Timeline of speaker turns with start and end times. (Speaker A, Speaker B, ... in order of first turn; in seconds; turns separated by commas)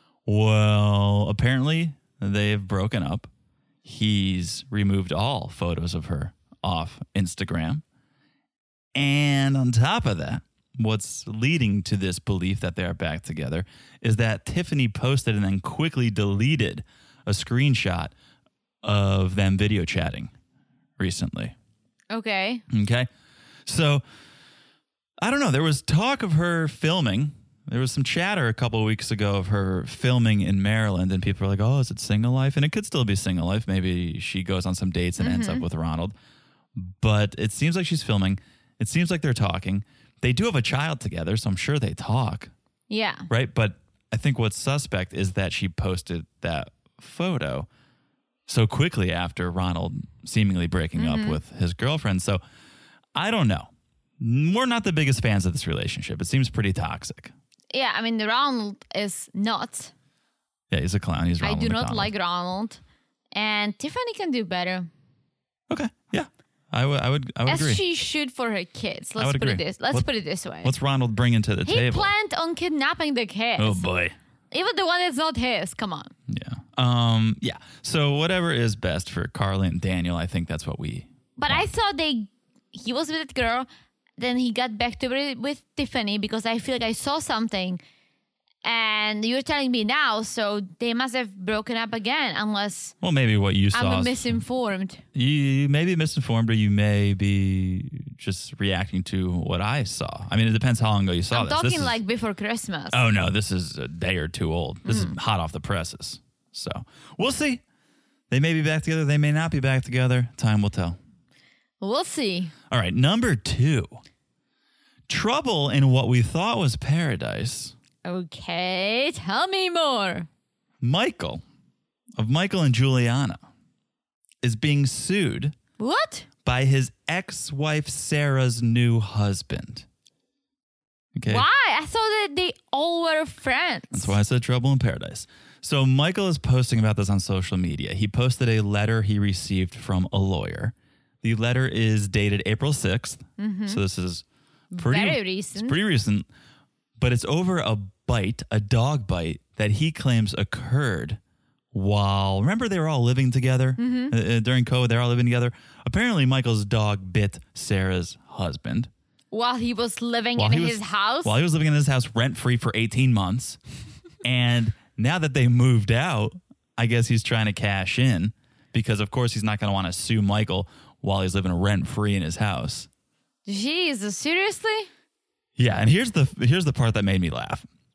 Speaker A: 0.2-3.3, Speaker A: 3.8-7.8, Speaker A: 8.9-18.1, Speaker A: 18.8-20.3, Speaker A: 21.0-21.5, Speaker B: 22.1-22.6, Speaker A: 22.7-23.1, Speaker A: 23.6-24.0, Speaker A: 25.2-36.1, Speaker B: 35.2-35.6, Speaker A: 36.7-42.5, Speaker B: 42.9-43.3, Speaker A: 43.3-47.7, Speaker A: 48.5-52.4, Speaker B: 51.0-51.4, Speaker A: 53.1-57.3, Speaker B: 57.7-59.9, Speaker A: 60.7-62.1, Speaker B: 61.4-62.8, Speaker B: 63.3-64.9, Speaker A: 65.7-67.8, Speaker B: 67.5-70.7, Speaker A: 69.2-70.0, Speaker A: 70.6-72.1, Speaker B: 71.7-73.8, Speaker A: 73.6-74.1, Speaker B: 74.5-76.1, Speaker A: 76.3-81.7, Speaker B: 81.4-83.7, Speaker B: 84.2-87.8, Speaker B: 88.6-92.9, Speaker A: 93.0-94.4, Speaker B: 93.7-95.0, Speaker A: 95.1-102.0, Speaker B: 101.3-103.0, Speaker A: 102.9-107.6, Speaker B: 104.9-105.2, Speaker A: 108.3-111.0, Speaker B: 111.8-112.5, Speaker A: 112.7-114.0, Speaker A: 115.1-117.7, Speaker B: 118.0-120.3, Speaker A: 120.8-121.4, Speaker A: 122.2-123.4, Speaker A: 124.4-125.5, Speaker B: 125.8-126.2, Speaker A: 126.4-129.8, Speaker A: 131.1-131.4, Speaker B: 131.2-134.1, Speaker A: 133.9-144.2, Speaker B: 143.4-143.8, Speaker B: 144.7-145.8, Speaker A: 144.8-146.2, Speaker A: 147.0-151.2, Speaker A: 151.7-158.9, Speaker B: 153.8-154.1, Speaker B: 159.3-161.3, Speaker A: 160.3-163.6, Speaker A: 164.2-172.9, Speaker B: 173.4-174.9, Speaker A: 175.6-177.7